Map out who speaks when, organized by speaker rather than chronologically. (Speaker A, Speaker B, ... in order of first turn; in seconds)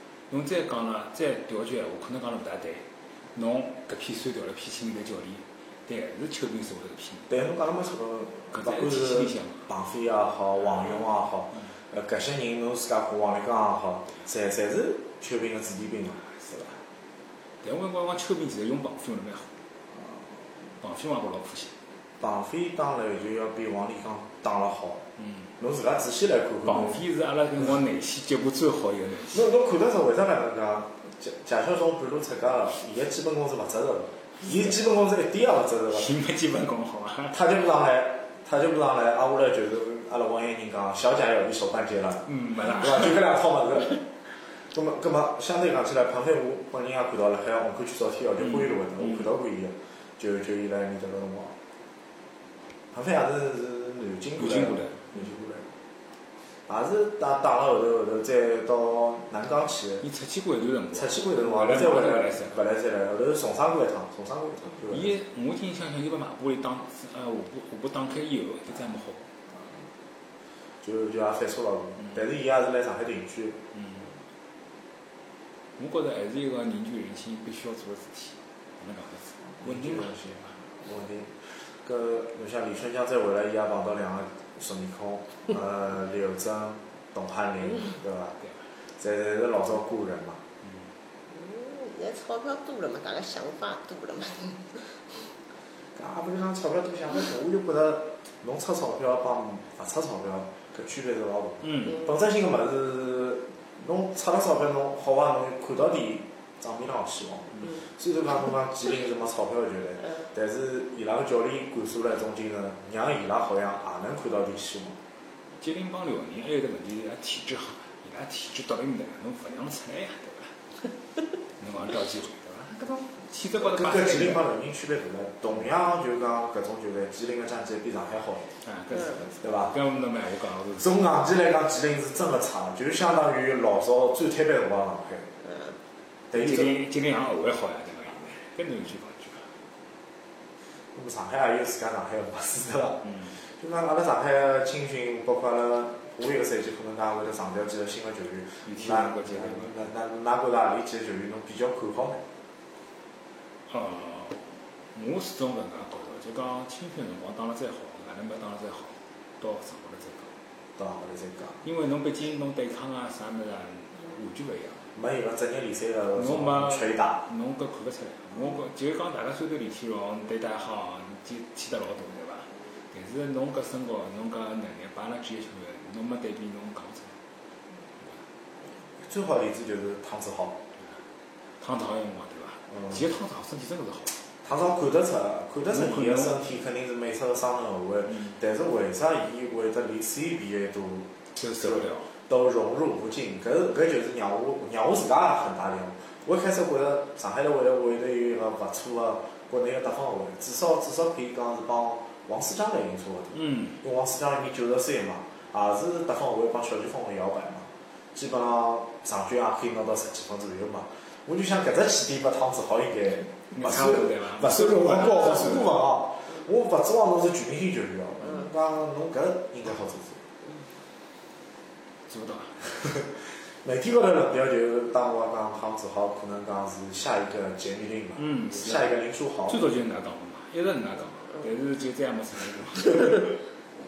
Speaker A: 0.3-7.3, 8.5-9.7, 17.6-19.5, 20.8-21.7, 25.2-25.4, 26.6-29.5, 35.9-37.4, 42.2-43.2, 48.4-49.3, 54.4-55.1, 60.0-62.5, 64.9-69.2, 73.7-74.0, 75.8-80.2, 101.6-102.0, 115.6-120.5, 121.6-124.5, 128.6-131.0, 136.3-139.5, 143.0-143.3, 148.7-149.8, 153.7-160.3, 161.6-164.8, 166.2-177.2, 181.6-184.2, 185.7-186.4, 191.3-192.1, 203.3-203.8, 213.5-215.8, 222.1-222.6, 228.2-228.9, 229.5-233.4
Speaker B: 7.3-16.8, 22.2-25.0, 25.6-27.0, 29.3-36.1, 37.3-44.0, 44.7-51.5, 52.9-55.7, 56.7-60.1, 60.9-65.1, 70.8-73.6, 79.6-88.4, 89.0-90.4, 95.9-115.0, 123.6-128.5, 129.3-129.8, 130.8-135.3, 136.3-136.8, 140.9-152.2, 160.8-161.6, 164.9-167.2, 179.0-180.6, 184.4-220.2, 223.6-229.7
Speaker C: 91.3-95.2, 135.4-135.7